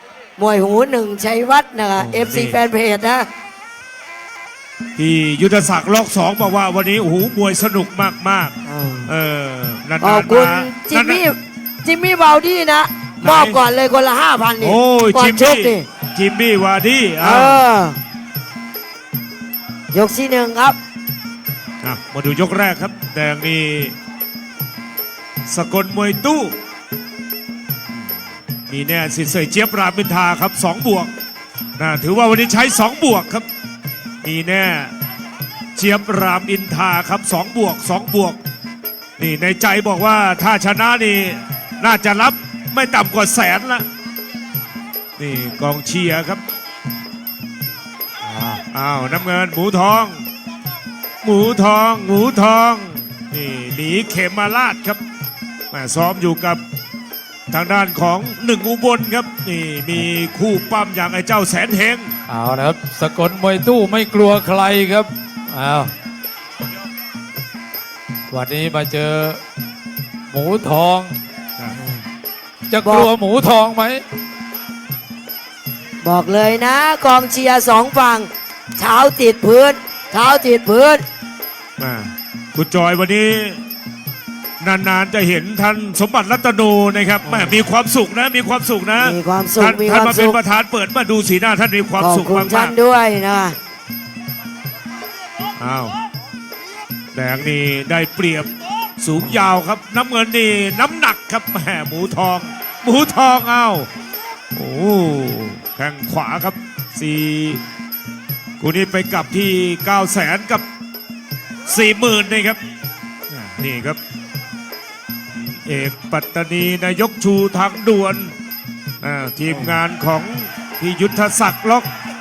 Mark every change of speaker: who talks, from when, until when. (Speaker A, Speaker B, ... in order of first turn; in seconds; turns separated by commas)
Speaker A: 0.4-3.3, Speaker B: 2.0-2.6, Speaker B: 5.0-8.5, Speaker A: 8.7-9.1, Speaker B: 9.1-11.2, Speaker A: 10.0-15.8, Speaker B: 13.2-13.6, Speaker B: 14.6-17.6, Speaker A: 17.2-18.0, Speaker A: 19.9-20.8, Speaker B: 21.8-23.9, Speaker B: 25.5-26.5, Speaker B: 28.7-31.1, Speaker B: 31.8-33.5, Speaker B: 34.2-34.9, Speaker B: 35.8-38.4, Speaker B: 39.2-43.9, Speaker B: 45.2-46.4, Speaker C: 48.3-48.6, Speaker B: 48.7-50.2, Speaker B: 51.2-55.0, Speaker B: 55.7-56.6, Speaker B: 57.5-62.1, Speaker C: 62.3-65.9, Speaker C: 68.3-69.4, Speaker C: 70.3-71.2, Speaker A: 71.8-72.0, Speaker C: 72.7-74.0, Speaker A: 72.8-73.1, Speaker A: 76.0-81.0, Speaker B: 81.8-83.6, Speaker B: 84.6-92.7, Speaker A: 89.0-90.4, Speaker A: 92.0-93.6, Speaker B: 95.6-95.9, Speaker B: 97.1-103.9, Speaker B: 104.5-107.6, Speaker B: 108.6-110.6, Speaker B: 111.7-112.6, Speaker B: 113.3-114.0, Speaker B: 115.3-118.3, Speaker B: 119.0-121.9